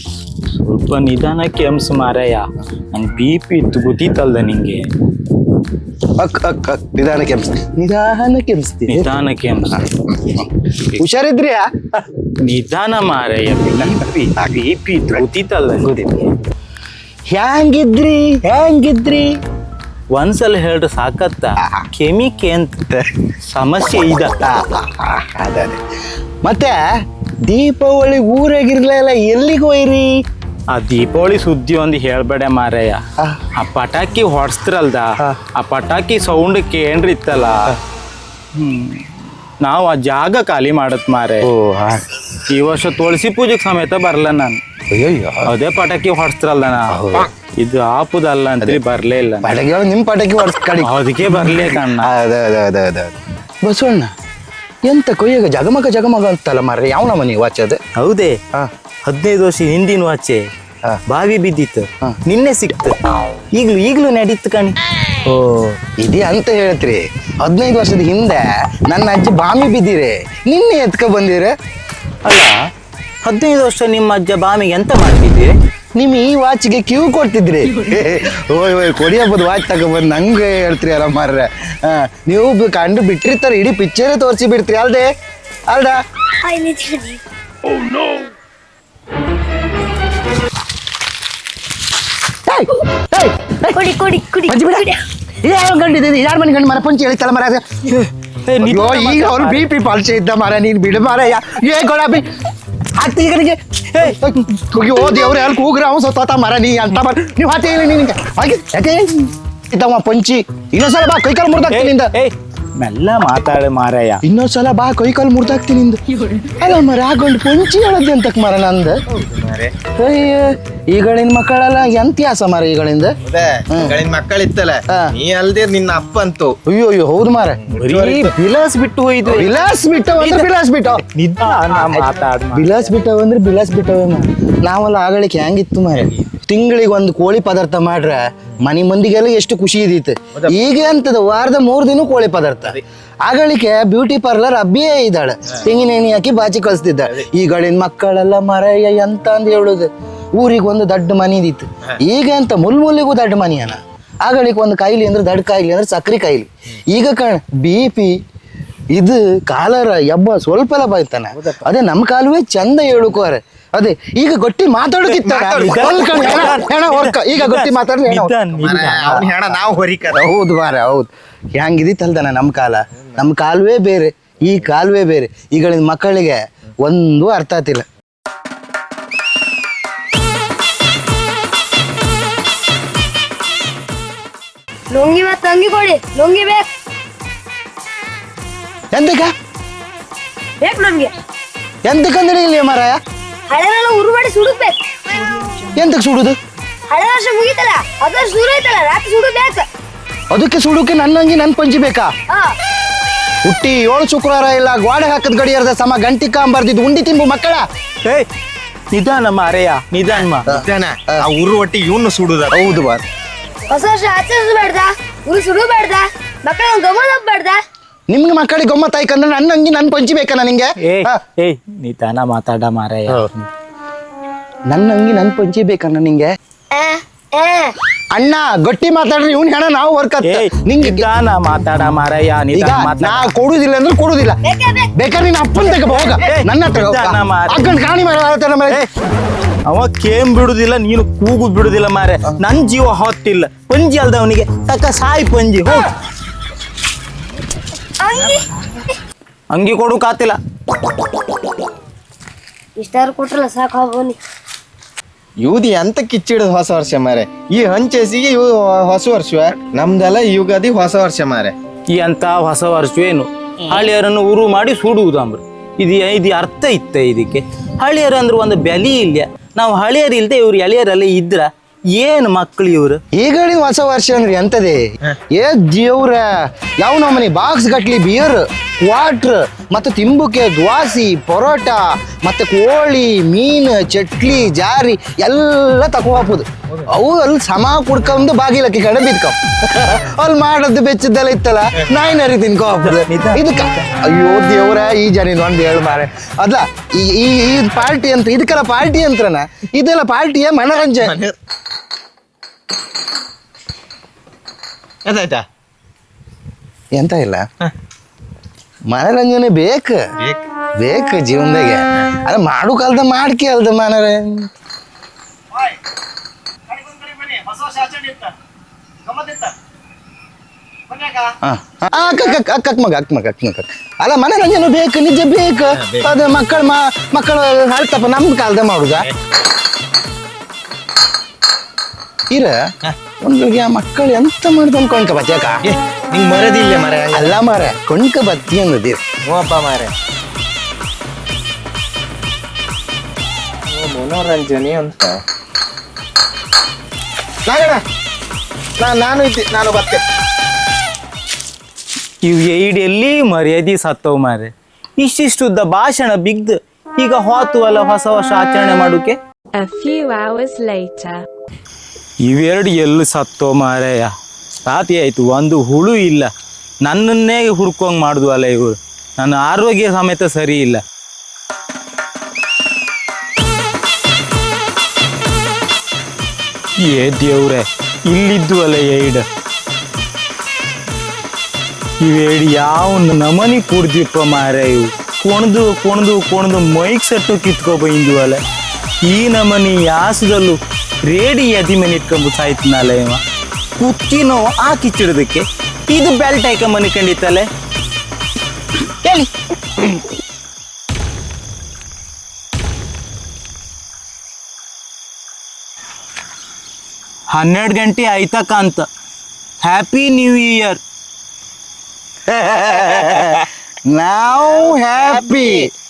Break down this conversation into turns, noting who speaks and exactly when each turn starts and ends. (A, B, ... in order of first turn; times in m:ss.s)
0:00.6-0:04.8 A
0:06.2-0:09.1 B
0:08.9-0:09.8 A
0:09.7-0:11.6 B
0:12.4-0:15.9 A
0:13.8-0:15.2 B
0:15.8-0:16.3 B
0:17.3-0:19.3 B
0:20.1-0:22.8 A
0:21.6-0:21.8 B
0:23.5-0:24.3 A
0:24.4-0:25.8 B
0:26.4-0:26.8 B
0:27.5-0:30.2 B
0:30.7-0:33.0 A
0:33.5-0:37.8 A
0:38.5-0:39.1 A
0:39.6-0:41.5 A
0:41.4-0:42.0 B
0:42.4-0:44.6 A
0:44.9-0:45.5 B
0:45.4-0:47.0 A
0:46.9-0:47.3 B
0:47.6-0:49.5 A
0:49.4-0:54.1 B
0:50.8-0:52.1 A
0:54.8-0:57.8 B
0:58.0-0:58.4 A
0:59.0-1:00.4 A
1:01.1-1:02.9 A
1:03.5-1:05.8 A
1:06.0-1:11.5 B
1:12.2-1:12.6 A
1:13.2-1:15.5 A
1:16.0-1:25.1 B
1:25.7-1:26.0 B
1:26.4-1:27.2 C
1:32.4-1:33.9 B
1:33.7-1:35.0 C
1:34.5-1:34.9 B
1:35.4-1:37.9 B
1:38.4-1:39.7 A
1:38.6-1:42.3 B
1:43.0-1:52.1 B
1:43.9-1:44.2 A
1:51.7-1:54.2 A
1:54.2-1:59.0 B
1:59.2-1:59.7 D
1:59.9-2:03.1 B
2:03.3-2:06.6 D
2:03.7-2:04.0 B
2:06.6-2:07.6 B
2:07.7-2:08.3 D
2:07.7-2:09.5 A
2:09.3-2:11.0 B
2:10.2-2:10.5 A
2:11.1-2:12.9 A
2:11.8-2:38.2 B
2:38.9-2:49.4 B
2:45.1-2:46.0 D
2:45.5-2:49.2 A
2:48.6-2:50.2 D
2:50.1-2:57.8 B
3:04.9-3:06.7 C
3:08.9-3:09.3 B
3:10.6-3:11.1 C
3:11.8-3:13.0 B
3:13.5-3:15.3 C
3:15.3-3:15.7 E
3:15.7-3:16.4 B
3:16.9-3:19.6 C
3:20.3-3:22.1 B
3:22.3-3:22.5 C
3:23.4-3:27.6 B
3:28.9-3:30.5 A
3:30.5-3:32.8 D
3:30.5-3:31.3 B
3:32.5-3:33.0 B
3:33.7-3:37.6 C
3:38.1-3:41.2 B
3:40.8-3:43.5 A
3:44.7-3:46.3 B
3:46.7-3:47.7 C
3:48.1-3:51.1 B
3:50.2-3:53.3 A
3:52.5-3:54.4 B
3:54.4-3:54.9 C
3:55.0-3:58.8 B
3:55.7-3:56.1 C
3:56.2-3:57.7 A
3:59.7-4:05.9 A
4:08.0-4:08.5 C
4:09.5-4:10.4 A
4:12.8-4:14.2 C
4:15.4-4:21.5 D
4:21.9-4:33.0 A
4:33.1-5:01.2 B
4:52.8-4:53.5 A
5:01.0-5:01.3 D
5:05.1-5:05.4 D
5:06.9-5:07.4 B
5:08.9-5:10.0 B
5:10.8-5:14.5 B
5:16.9-5:18.2 B
5:21.2-5:29.1 B
5:25.8-5:26.1 D
5:32.3-5:32.6 B
5:33.2-5:35.6 B
5:35.6-5:37.3 D
5:37.1-5:39.0 B
5:39.3-5:39.9 D
5:43.7-5:45.2 D
5:47.5-5:47.8 D
5:48.8-5:50.0 D
5:52.2-5:59.2 A
5:59.5-6:01.2 E
6:02.2-6:04.1 A
6:04.6-6:06.3 A
6:06.8-6:10.8 A
6:16.8-6:19.2 A
6:22.0-6:28.4 A
6:29.0-6:33.2 A
6:33.8-6:37.5 A
6:47.3-6:48.8 A
6:49.6-6:50.8 A
6:52.3-6:55.7 B